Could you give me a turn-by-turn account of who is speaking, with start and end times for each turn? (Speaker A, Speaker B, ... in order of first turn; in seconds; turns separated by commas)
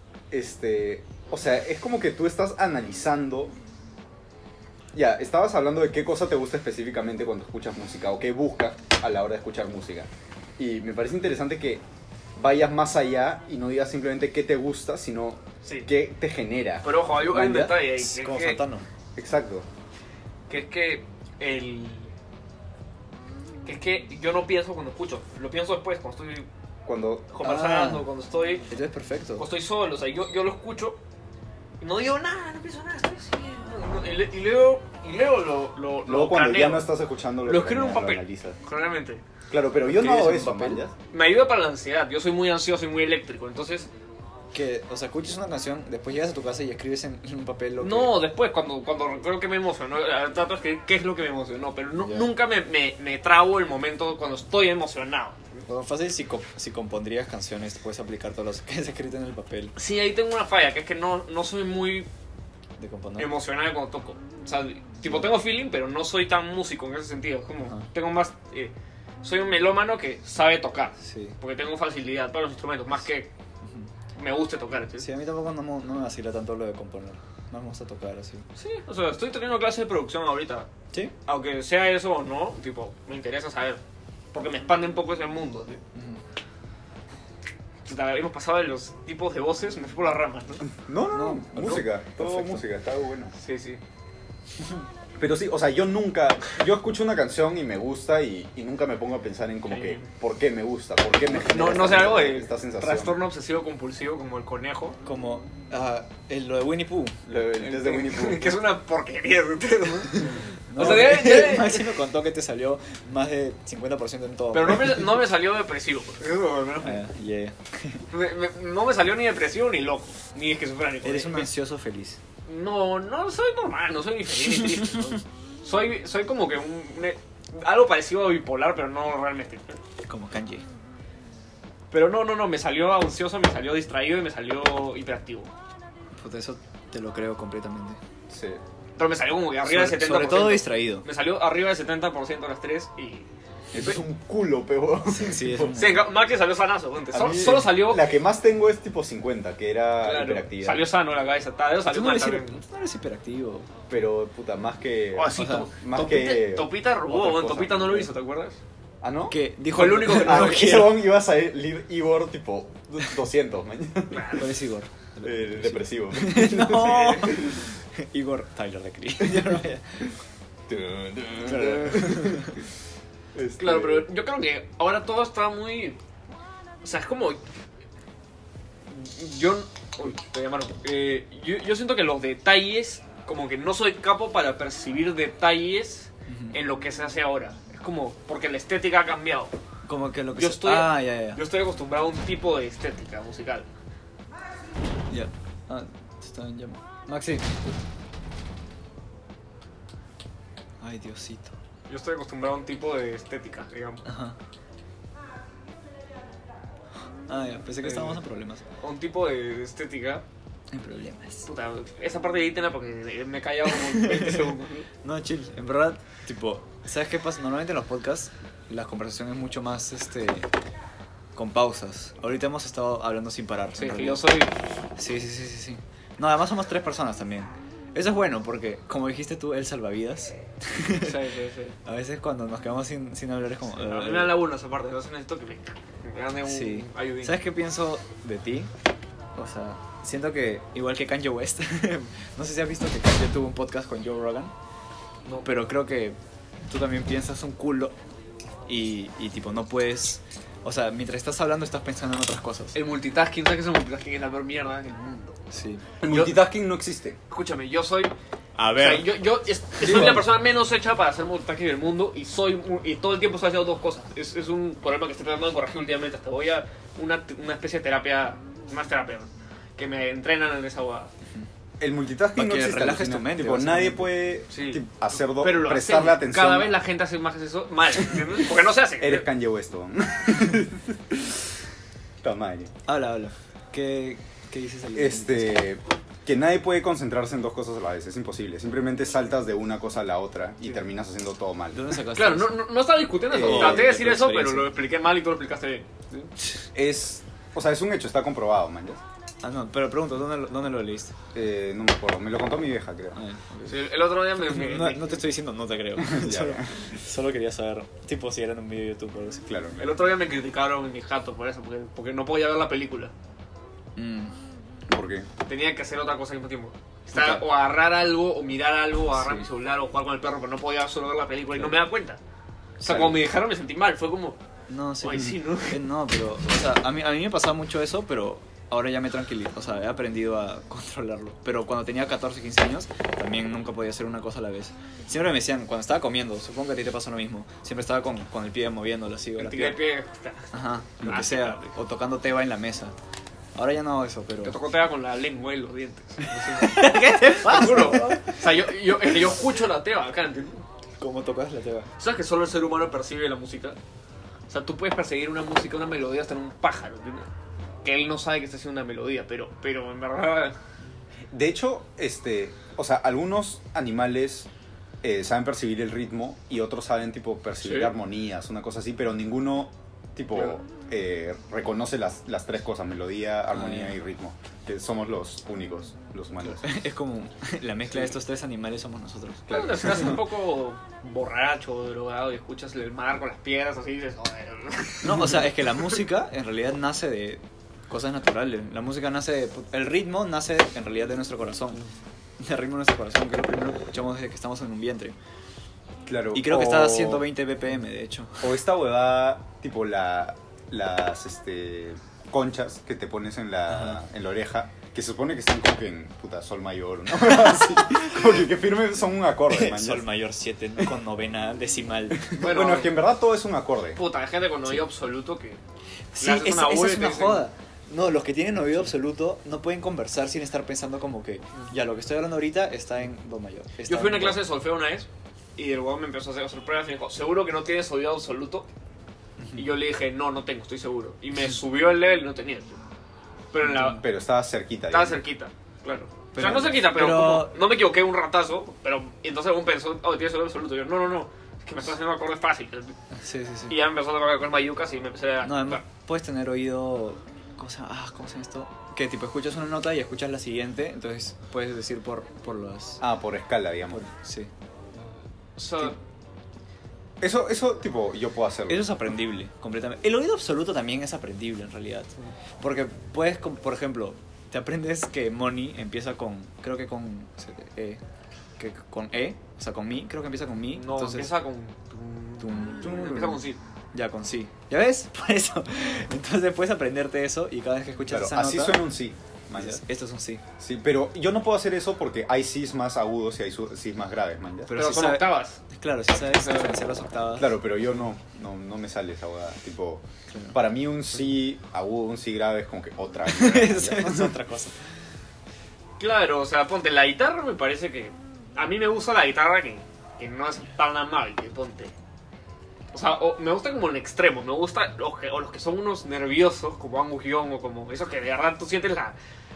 Speaker A: 0.3-3.5, Speaker A: 4.9-11.8, Speaker A: 12.3-16.9, Speaker B: 16.8-18.6, Speaker C: 17.2-18.9, Speaker A: 19.1-19.6, Speaker B: 20.5-22.1, Speaker B: 23.6-26.5, Speaker A: 26.9-27.3, Speaker B: 27.3-28.7, Speaker C: 27.4-28.1, Speaker C: 28.7-29.5, Speaker B: 29.4-31.0, Speaker B: 31.8-36.9, Speaker A: 36.0-38.6, Speaker B: 37.4-39.2, Speaker A: 39.5-40.9, Speaker C: 40.0-40.8, Speaker B: 41.1-43.9, Speaker C: 44.5-48.1, Speaker B: 47.8-55.6, Speaker C: 52.0-52.3, Speaker C: 55.6-59.8, Speaker B: 59.8-62.1, Speaker C: 62.8-63.3, Speaker B: 63.2-73.3, Speaker C: 71.0-71.3, Speaker C: 73.6-73.9, Speaker B: 74.2-75.1, Speaker C: 75.0-78.5, Speaker B: 78.6-80.7, Speaker B: 81.2-83.8, Speaker B: 84.3-85.8, Speaker C: 85.9-86.2, Speaker B: 87.8-90.7, Speaker A: 90.8-93.3, Speaker C: 91.1-92.6, Speaker B: 93.4-93.8, Speaker A: 95.2-103.2, Speaker B: 99.7-100.1, Speaker B: 101.3-105.0, Speaker C: 105.0-107.2, Speaker A: 107.2-108.6, Speaker B: 107.6-111.9, Speaker C: 110.2-115.1, Speaker B: 114.5-117.0, Speaker C: 116.8-118.0, Speaker B: 118.1-121.5, Speaker C: 121.0-122.2, Speaker B: 122.5-129.8, Speaker C: 130.1-130.6, Speaker B: 131.9-135.5, Speaker C: 136.2-138.0, Speaker A: 138.3-138.6, Speaker B: 139.0-143.3, Speaker C: 139.6-141.1, Speaker A: 143.7-145.8, Speaker C: 145.1-146.0, Speaker B: 145.7-148.1, Speaker A: 147.1-150.9, Speaker B: 150.0-152.6, Speaker C: 151.9-153.7, Speaker A: 153.9-158.1, Speaker B: 155.1-158.6, Speaker C: 155.3-155.7, Speaker A: 159.0-164.4, Speaker C: 159.3-161.0, Speaker B: 159.7-160.7, Speaker B: 164.1-164.5, Speaker C: 164.3-170.1, Speaker A: 165.2-167.6, Speaker B: 166.8-167.2, Speaker A: 170.7-172.5, Speaker C: 171.4-172.6, Speaker A: 173.3-174.1, Speaker B: 173.6-176.0, Speaker B: 176.8-177.4, Speaker B: 178.9-189.5, Speaker C: 186.3-186.6, Speaker C: 189.8-191.4, Speaker B: 190.3-193.7, Speaker C: 195.1-197.6, Speaker C: 200.8-201.5, Speaker B: 201.9-204.0, Speaker C: 204.0-204.4, Speaker C: 207.3-208.6, Speaker B: 207.8-208.2, Speaker B: 208.8-210.2, Speaker C: 210.7-211.5, Speaker B: 211.4-214.9, Speaker C: 213.7-214.4, Speaker C: 215.0-220.5, Speaker C: 221.3-224.2, Speaker B: 223.8-224.5, Speaker C: 225.0-231.2, Speaker B: 230.9-231.8, Speaker C: 231.8-234.4, Speaker B: 233.8-237.4, Speaker C: 236.4-238.7, Speaker C: 239.3-244.5, Speaker C: 245.4-247.9, Speaker C: 248.7-252.8, Speaker B: 252.7-255.4, Speaker C: 255.5-255.8, Speaker A: 256.0-257.2, Speaker B: 256.0-256.4, Speaker B: 257.3-258.1, Speaker C: 258.6-259.1, Speaker B: 258.8-271.1, Speaker C: 259.8-260.2, Speaker A: 271.8-276.7, Speaker C: 272.4-274.1, Speaker B: 274.5-279.2, Speaker A: 279.0-281.6, Speaker A: 282.2-282.7, Speaker C: 282.9-285.6, Speaker A: 284.9-291.8, Speaker C: 291.7-292.7, Speaker B: 292.1-296.3, Speaker A: 293.3-294.1, Speaker C: 293.3-294.7, Speaker A: 296.7-299.0, Speaker C: 299.4-301.1, Speaker A: 301.3-303.2, Speaker C: 303.1-303.8, Speaker B: 303.6-305.2, Speaker C: 304.4-309.5, Speaker A: 306.0-306.9, Speaker A: 309.5-310.0, Speaker B: 309.8-313.1, Speaker C: 313.9-314.3, Speaker A: 314.9-315.3, Speaker B: 315.5-322.2, Speaker C: 317.1-317.4, Speaker C: 319.1-319.4, Speaker B: 322.8-324.4, Speaker A: 322.9-323.1, Speaker C: 324.7-339.8, Speaker B: 325.0-325.8, Speaker B: 339.4-340.5, Speaker C: 340.5-342.9, Speaker B: 341.0-341.8, Speaker C: 343.5-344.6, Speaker B: 344.4-350.6, Speaker C: 346.4-348.4, Speaker C: 351.0-351.9, Speaker B: 352.0-353.8, Speaker B: 354.5-357.3, Speaker B: 357.8-360.6, Speaker A: 361.3-364.5, Speaker A: 365.0-376.8, Speaker B: 367.6-367.9, Speaker C: 373.5-374.0, Speaker C: 376.4-380.1, Speaker A: 379.5-380.2, Speaker B: 379.5-386.0, Speaker C: 385.0-391.8, Speaker C: 392.4-395.1, Speaker A: 396.1-397.3, Speaker C: 396.3-398.5, Speaker A: 398.4-410.1, Speaker C: 403.7-404.0, Speaker C: 409.5-412.3, Speaker A: 412.2-414.0, Speaker B: 412.4-413.0, Speaker B: 413.9-415.6, Speaker C: 416.1-424.4, Speaker B: 416.2-417.4, Speaker B: 423.9-428.7, Speaker C: 429.4-429.7, Speaker B: 429.6-432.8, Speaker B: 433.5-434.0, Speaker C: 433.6-434.0, Speaker A: 433.9-435.2, Speaker B: 434.9-442.9, Speaker C: 436.3-437.6, Speaker C: 443.1-443.8, Speaker B: 443.7-445.8, Speaker C: 445.4-453.0, Speaker A: 453.0-454.0, Speaker C: 453.9-454.5, Speaker B: 455.6-455.9, Speaker A: 457.2-458.9, Speaker C: 458.7-468.0, Speaker C: 468.6-471.3, Speaker B: 470.8-473.6, Speaker C: 472.4-473.4, Speaker C: 473.9-478.9, Speaker A: 478.1-479.8, Speaker C: 479.5-480.4, Speaker A: 480.6-484.7, Speaker C: 484.7-487.6, Speaker B: 484.8-485.6, Speaker B: 486.2-486.9, Speaker A: 487.4-494.3, Speaker C: 490.3-490.6, Speaker C: 493.3-494.7, Speaker B: 496.0-501.9, Speaker B: 502.9-509.1